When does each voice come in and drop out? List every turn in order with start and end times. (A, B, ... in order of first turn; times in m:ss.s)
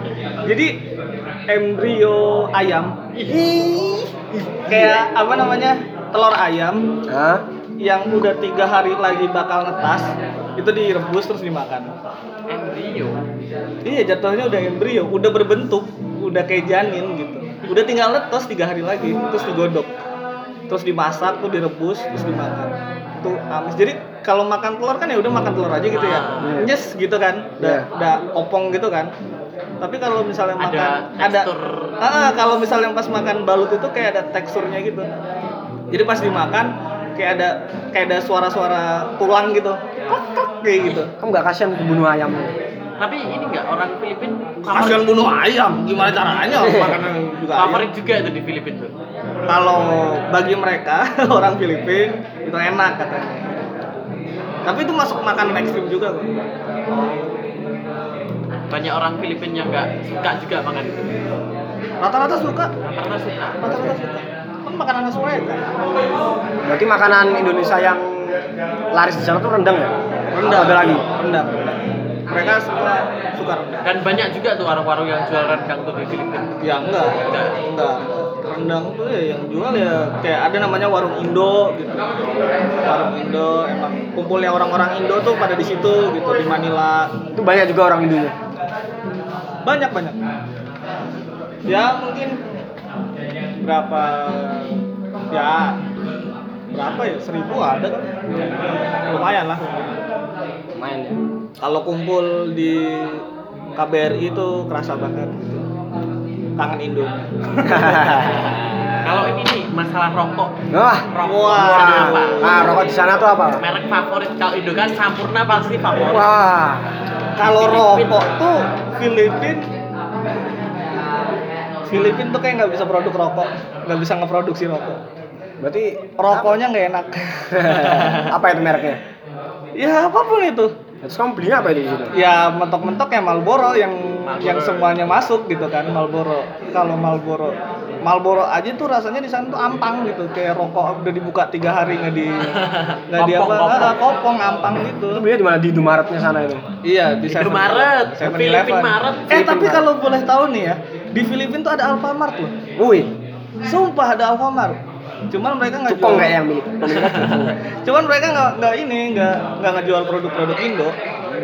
0:00.4-0:00.8 A
0:01.5-0:03.0 A
0:03.3-0:05.0 B
0:04.7-0:06.8 A
0:07.1-0:07.4 B
0:07.8-0:11.9 A
0:12.5-0:13.2 C
0:13.8-0:19.9 A
0:20.7-0:29.1 A
0:25.9-0:26.6 C
0:26.4-0:26.7 B
0:27.6-0:27.9 B
0:29.8-0:31.5 A
0:30.6-0:32.0 C
0:32.0-0:35.1 A
0:35.9-0:41.1 A
0:41.2-0:42.6 B
0:43.0-0:45.2 C
0:44.6-0:47.9 A
0:46.0-0:48.9 C
0:46.6-0:47.0 B
0:49.5-0:53.5 A
0:54.7-0:56.3 A
0:56.9-0:57.2 A
0:58.7-1:01.2 C
1:02.0-1:02.7 A
1:02.9-1:03.6 C
1:03.6-1:05.7 A
1:03.7-1:04.0 B
1:06.6-1:08.4 B
1:08.9-1:11.0 B
1:10.4-1:11.8 A
1:12.3-1:13.9 A
1:13.8-1:16.5 C
1:16.6-1:22.1 A
1:17.1-1:17.6 C
1:22.8-1:27.1 A
1:27.4-1:28.4 B
1:29.6-1:30.2 A
1:31.7-1:32.4 A
1:33.6-1:34.7 A
1:35.3-1:35.8 A
1:36.7-1:38.1 A
1:39.1-1:39.9 A
1:40.8-1:41.2 B
1:41.6-1:43.2 A
1:43.8-1:45.6 A
1:46.6-1:48.2 A
1:47.7-1:49.3 B
1:49.0-1:50.6 C
1:50.7-1:51.1 B
1:51.1-1:52.7 C
1:51.2-1:52.7 A
1:51.6-1:53.6 B
1:53.6-1:56.3 C
1:56.0-1:56.9 B
1:57.4-1:59.7 A
1:57.4-1:58.3 C
2:01.9-2:05.0 A
2:05.6-2:06.6 B
2:06.2-2:07.9 A
2:07.5-2:09.0 B
2:07.9-2:08.3 C
2:09.8-2:10.8 A
2:11.0-2:12.1 B
2:12.1-2:25.2 A
2:14.3-2:15.0 C
2:22.6-2:24.0 C
2:25.1-2:26.6 B
2:26.8-2:32.5 A
2:27.3-2:29.4 C
2:29.3-2:29.9 B
2:32.8-2:33.1 B
2:33.7-2:34.8 A
2:35.3-2:36.4 A
2:35.9-2:37.6 B
2:36.9-2:37.4 C
2:37.8-2:41.0 A